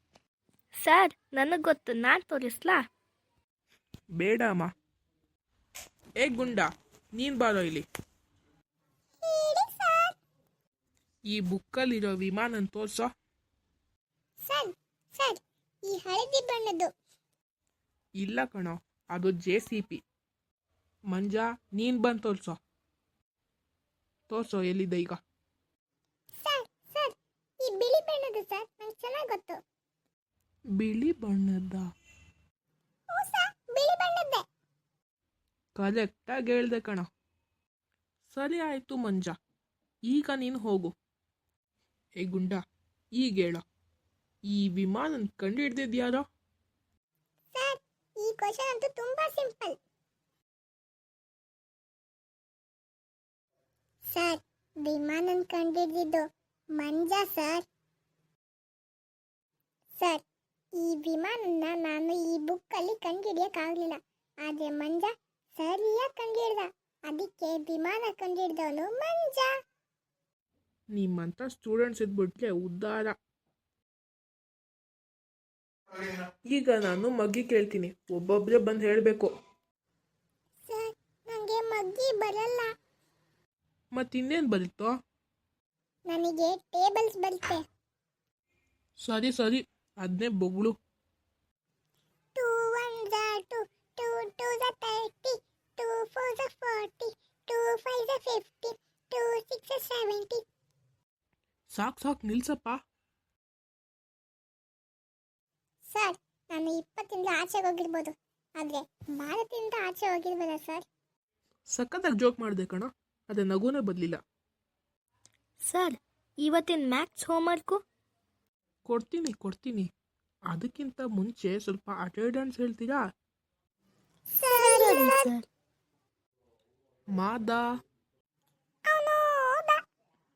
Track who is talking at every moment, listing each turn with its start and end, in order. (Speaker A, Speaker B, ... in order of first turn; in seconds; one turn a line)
Speaker A: 0.8-2.8
Speaker B: 4.2-4.7
Speaker B: 6.2-7.8
Speaker C: 9.2-10.2
Speaker B: 11.3-13.1
Speaker C: 14.4-16.9
Speaker B: 18.2-20.0
Speaker B: 21.1-22.6
Speaker B: 24.3-25.2
Speaker C: 26.4-29.6
Speaker B: 30.8-31.9
Speaker C: 33.1-34.4
Speaker B: 35.8-37.1
Speaker B: 38.3-39.4
Speaker B: 40.1-40.9
Speaker B: 42.2-42.6
Speaker B: 43.2-43.6
Speaker B: 44.5-46.2
Speaker C: 47.5-49.8
Speaker C: 54.0-56.2
Speaker C: 56.8-57.6
Speaker C: 60.0-60.2
Speaker C: 60.8-69.5
Speaker B: 70.9-73.1
Speaker B: 76.5-79.3
Speaker C: 80.7-82.7
Speaker B: 83.9-85.0
Speaker C: 86.1-87.6
Speaker B: 89.0-90.7
Speaker C: 92.3-100.4
Speaker B: 101.7-102.8
Speaker C: 105.8-110.8
Speaker B: 111.7-114.2
Speaker A: 115.6-117.8
Speaker B: 118.8-119.9
Speaker B: 120.5-123.0
Speaker C: 124.3-125.3
Speaker A: 124.5-125.5
Speaker B: 127.1-127.6
Speaker C: 128.9-129.8